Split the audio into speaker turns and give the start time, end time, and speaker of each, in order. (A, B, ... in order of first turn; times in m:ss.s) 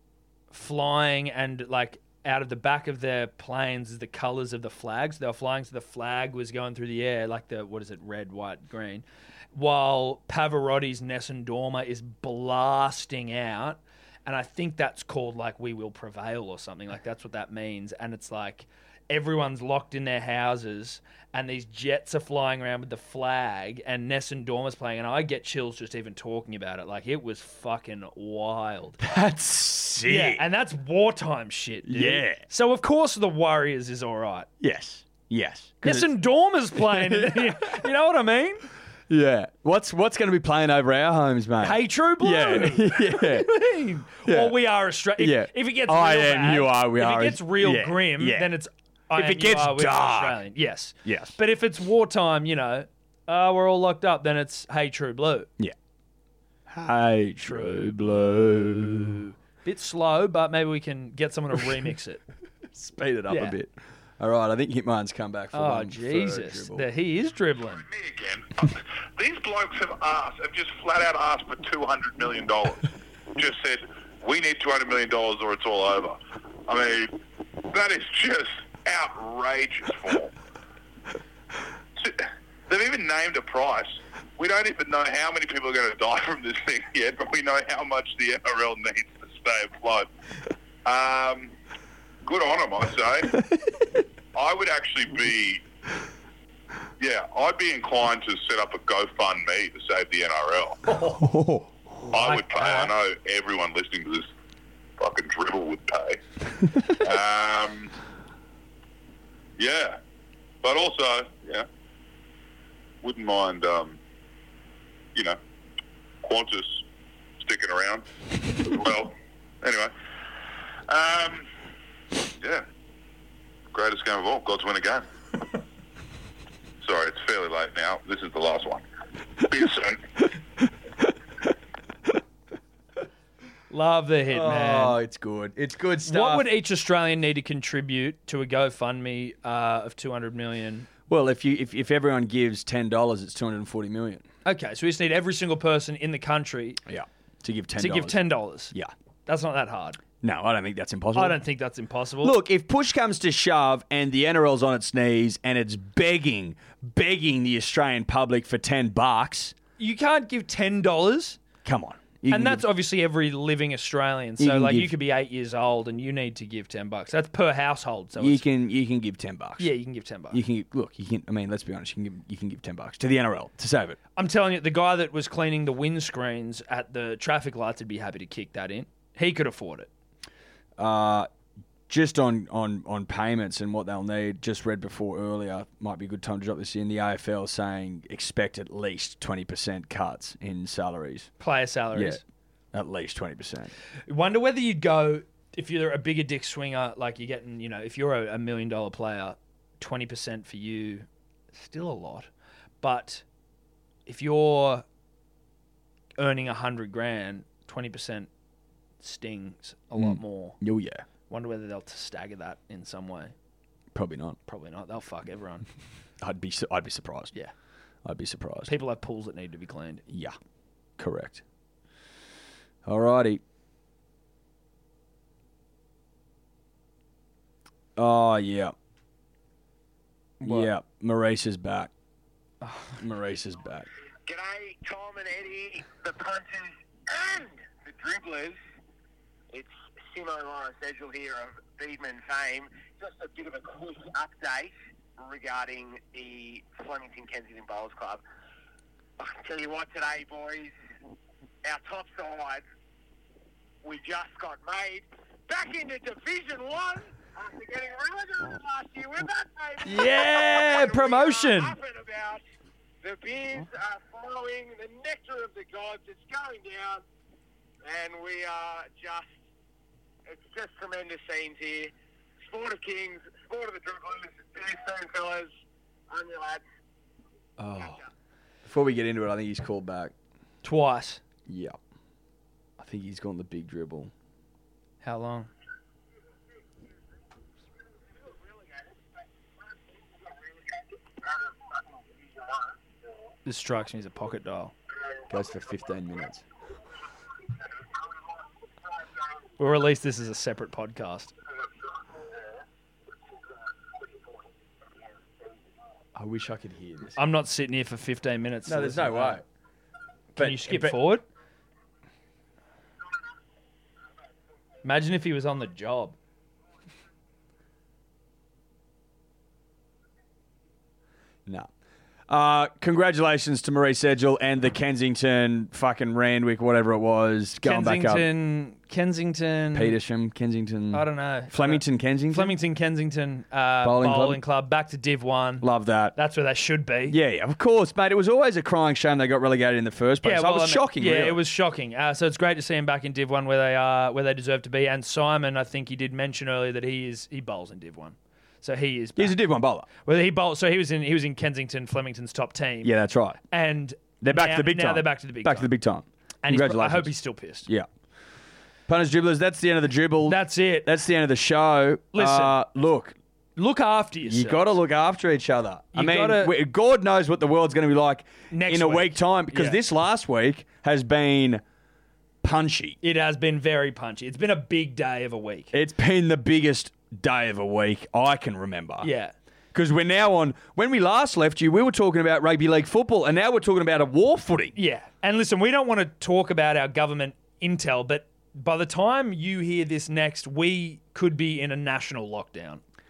0:00.5-0:29.0 A
0:29.0-0:30.4 B
0:30.0-0:34.5 A
0:31.8-0:32.4 B
0:34.6-0:36.2 B
0:35.8-0:38.7 A
0:36.8-0:37.8 B
0:39.1-0:43.5 B
0:41.6-0:55.5 A
0:44.2-0:44.6 B
0:45.2-0:48.5 B
0:49.1-0:50.4 B
0:51.0-0:51.4 B
0:56.7-0:59.2 B
0:57.5-1:02.2 A
1:02.7-1:06.9 B
1:03.3-1:03.6 A
1:05.5-1:07.9 A
1:07.8-1:17.1 C
1:17.7-1:20.3 C
1:22.0-1:30.1 C
1:30.8-1:31.5 C
1:32.2-1:33.4 C
1:34.3-1:35.6 C
1:37.0-1:40.8 C
1:41.2-1:41.7 B
1:42.1-1:42.9 A
1:42.1-1:44.3 C
1:45.0-1:46.2 C
1:46.8-1:47.9 C
1:49.6-1:50.0 C
1:50.6-1:51.7 C
1:53.0-1:54.0 C
1:56.2-1:56.8 C
1:57.4-1:58.1 C
1:58.6-1:59.9 C
2:00.9-2:01.5 C
2:02.4-2:02.6 C
2:03.7-2:05.1 C
2:06.8-2:08.8 C
2:09.4-2:10.0 C
2:13.7-2:15.0 A
2:14.3-2:16.5 B
2:16.0-2:20.9 A
2:21.1-2:24.2 B
2:24.4-2:26.8 A
2:26.9-2:28.9 B
2:27.8-2:28.7 A
2:29.3-2:30.0 A
2:30.2-2:31.4 B
2:31.1-2:32.4 A
2:32.2-2:39.6 B
2:39.8-2:41.4 A
2:41.6-2:42.6 B
2:42.3-2:48.4 A
2:44.4-2:44.9 B
2:48.2-2:49.7 B
2:49.6-2:50.4 A
2:50.3-2:54.0 B
2:54.2-2:59.9 A
3:00.8-3:01.3 B
3:01.9-3:11.3 B
3:11.4-3:12.2 A
3:11.9-3:12.2 B
3:12.7-3:13.7 B
3:14.1-3:22.3 A
3:22.8-3:23.2 A
3:24.1-3:24.8 A
3:26.2-3:28.3 A
3:29.0-3:30.6 A
3:30.0-3:31.0 B
3:31.3-3:33.3 A
3:33.9-3:34.4 B
3:34.5-3:35.7 A
3:36.2-3:37.3 B
3:38.0-3:38.7 B
3:38.7-3:40.0 A
3:40.1-3:40.4 B
3:41.0-3:41.4 B
3:42.9-3:43.4 B
3:48.0-3:48.7 B
3:50.4-3:50.7 A
3:50.4-3:51.9 B
3:52.6-3:53.0 A
3:53.0-3:53.9 B
3:54.3-3:58.6 D
3:59.5-4:08.2 D
4:09.2-4:10.7 D
4:11.6-4:12.6 D
4:13.8-4:22.4 D
4:19.8-4:21.8 A
4:23.0-4:27.0 D
4:27.8-4:29.3 D
4:30.3-4:35.5 D
4:36.1-4:36.6 D
4:37.6-4:38.0 B
4:37.8-4:38.0 D
4:38.6-4:40.1 B
4:40.6-4:41.2 A
4:41.5-4:41.8 B
4:42.8-4:44.1 B
4:45.0-4:45.5 A
4:51.3-4:51.7 D
4:53.4-4:54.7 A
4:55.3-4:56.4 B
4:59.6-5:01.3 A
5:06.2-5:07.2 B
5:07.2-5:09.4 A
5:08.7-5:09.4 B
5:10.4-5:11.0 B
5:10.4-5:11.2 A
5:14.8-5:16.2 A
5:22.3-5:28.3 B
5:27.6-5:30.0 A
5:29.7-5:32.6 B
5:30.9-5:37.2 A
5:33.8-5:34.4 B
5:35.6-5:36.2 B
5:37.1-5:41.4 B
5:40.2-5:49.4 A
5:49.2-5:49.9 B
5:50.0-5:52.9 A
5:52.8-5:53.4 B
5:53.5-5:55.7 A
5:54.2-5:57.9 B
5:56.4-5:57.7 A
5:58.9-6:03.2 B
6:00.3-6:00.9 A
6:02.1-6:02.6 A
6:03.6-6:04.8 A
6:04.2-6:11.6 B
6:05.9-6:06.5 A
6:08.5-6:09.8 A
6:12.4-6:13.0 B
6:13.0-6:15.7 A
6:15.7-6:19.1 B
6:19.0-6:19.3 A
6:19.7-6:24.7 B
6:24.8-6:32.8 A